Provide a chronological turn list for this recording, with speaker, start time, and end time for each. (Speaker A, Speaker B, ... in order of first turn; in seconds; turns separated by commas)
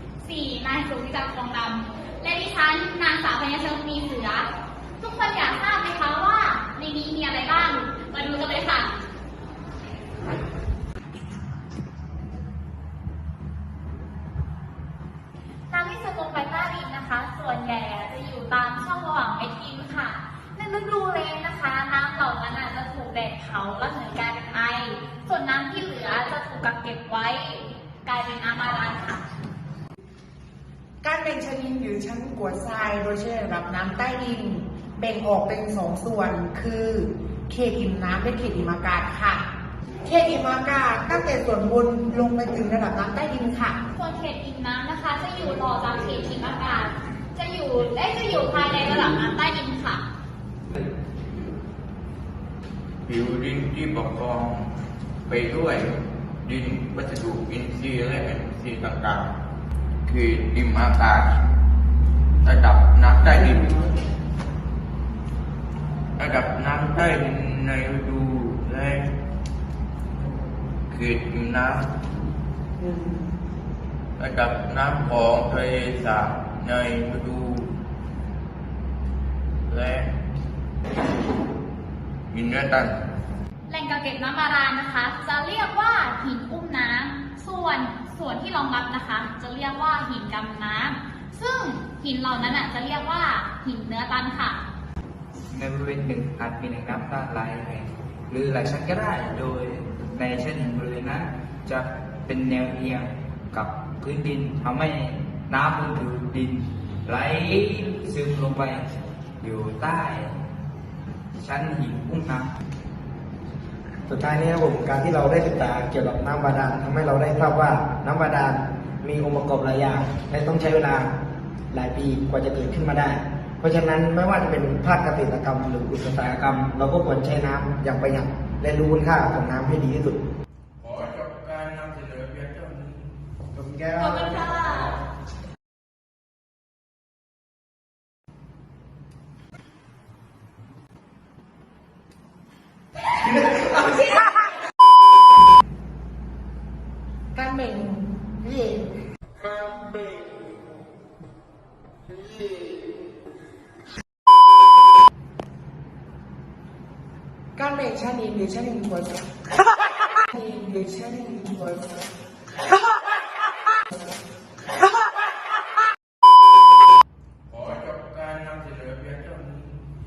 Speaker A: 0.2-4.5, Speaker A: 5.0-9.0, Speaker A: 15.7-29.2, Speaker B: 31.0-39.5, Speaker B: 40.0-43.8, Speaker A: 43.9-50.0, Speaker C: 53.0-54.7, Speaker C: 55.3-59.3, Speaker C: 60.0-61.3, Speaker C: 62.4-63.8, Speaker C: 66.2-69.1, Speaker C: 70.9-71.9, Speaker C: 74.2-77.7, Speaker C: 79.7-80.1, Speaker C: 82.3-82.9, Speaker A: 83.7-94.6, Speaker D: 95.5-108.8, Speaker D: 109.4-110.3, Speaker D: 111.3-112.5, Speaker E: 114.1-121.1, Speaker E: 121.7-130.2, Speaker C: 130.8-133.1, Speaker E: 133.5-134.5, Speaker A: 134.0-134.9, Speaker B: 147.3-148.9, Speaker B: 157.6-159.2, Speaker B: 160.3-161.9, Speaker C: 167.5-169.8